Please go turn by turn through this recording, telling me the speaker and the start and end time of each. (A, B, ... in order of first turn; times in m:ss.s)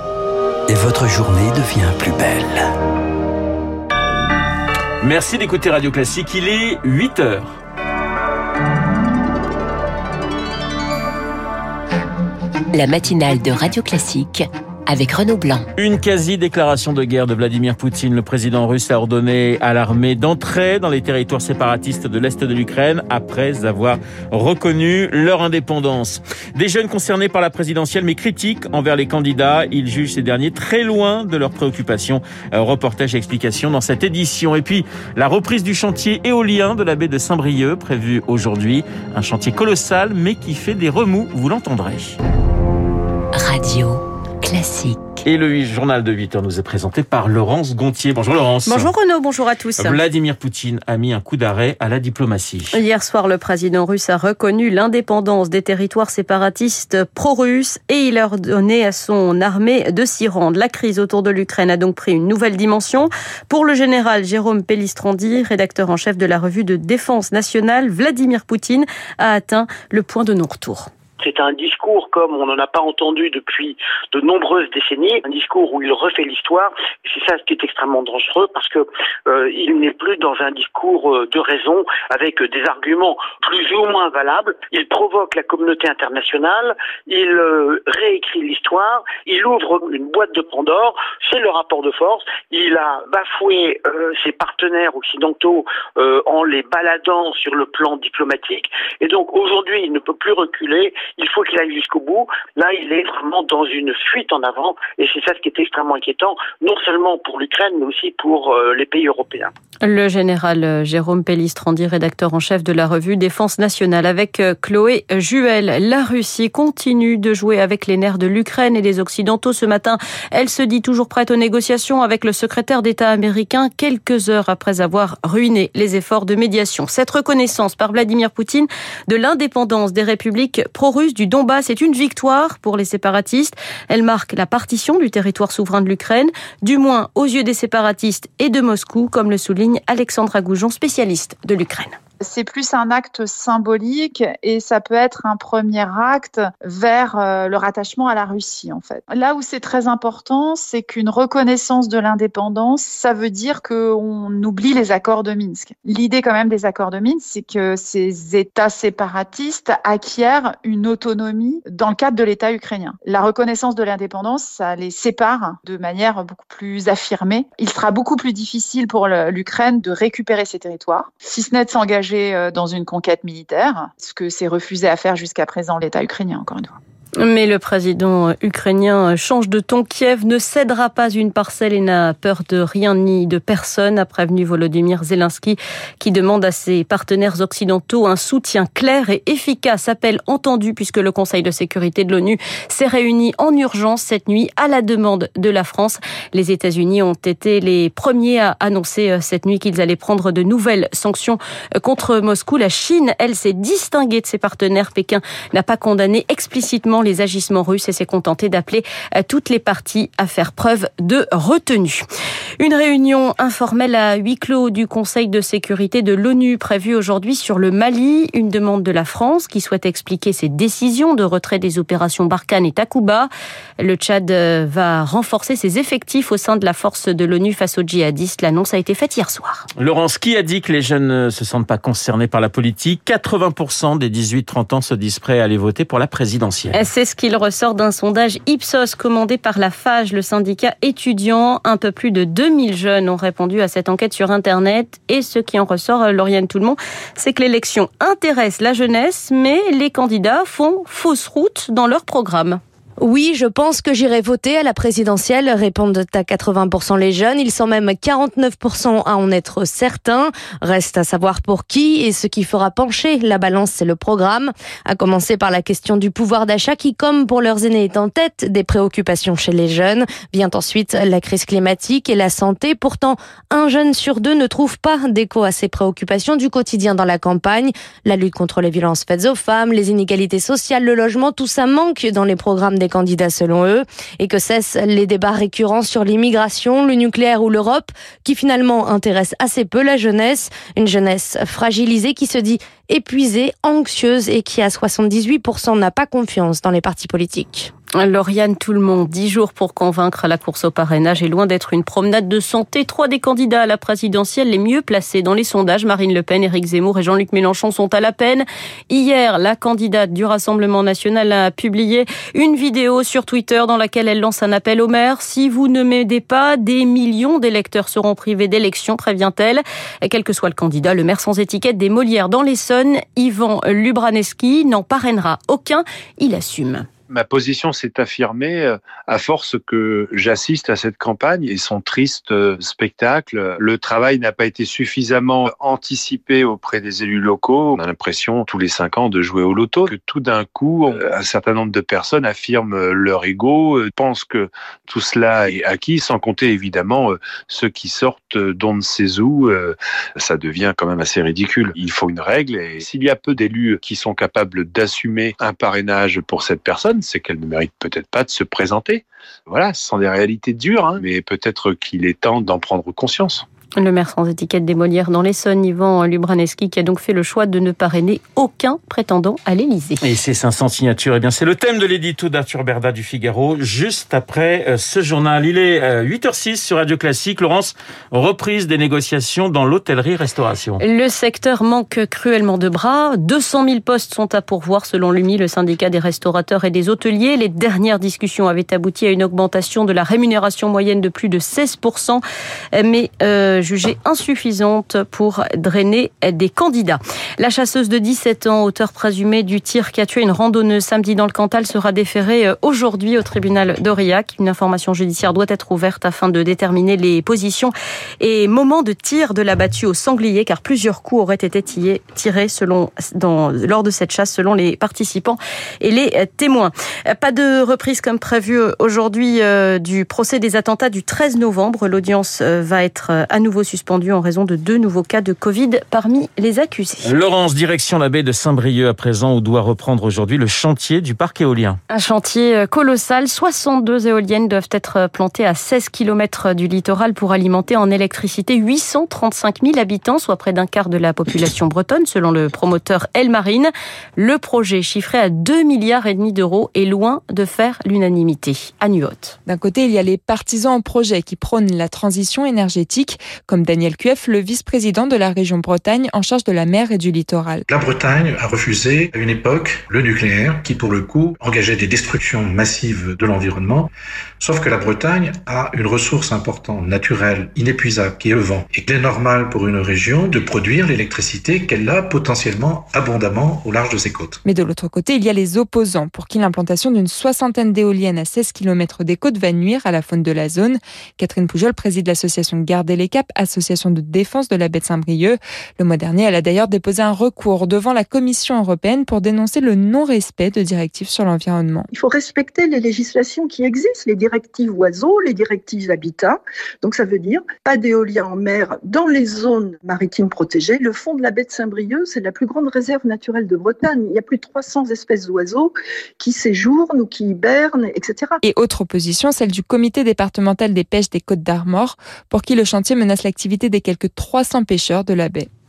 0:00.7-0:02.7 A
0:05.0-0:07.6 B
0:12.7-0:15.7 C
0:15.8-0:42.2 B
0:43.3-0:45.2 C
0:45.2-0:48.9 B
0:48.6-0:50.0 D
0:49.8-0:52.8 B
0:52.7-1:10.9 D
1:11.2-1:49.5 E
1:49.8-2:21.9 D
2:22.2-2:56.7 F
2:57.2-3:32.0 D
3:32.6-3:49.6 D
3:49.8-3:56.8 B
3:56.7-4:12.6 D
4:13.0-4:57.7 G
4:58.0-5:26.9 D
5:27.1-6:03.4 H
6:03.8-6:10.0 D
6:10.0-6:20.8 B
6:20.8-6:32.2 D
6:32.7-7:07.1 D
7:07.0-7:11.8 B
7:11.9-7:29.3 D
7:29.4-7:37.6 I
7:37.7-7:54.4 J
7:54.4-8:11.9 I
8:11.9-8:28.4 K
8:28.4-8:35.5 I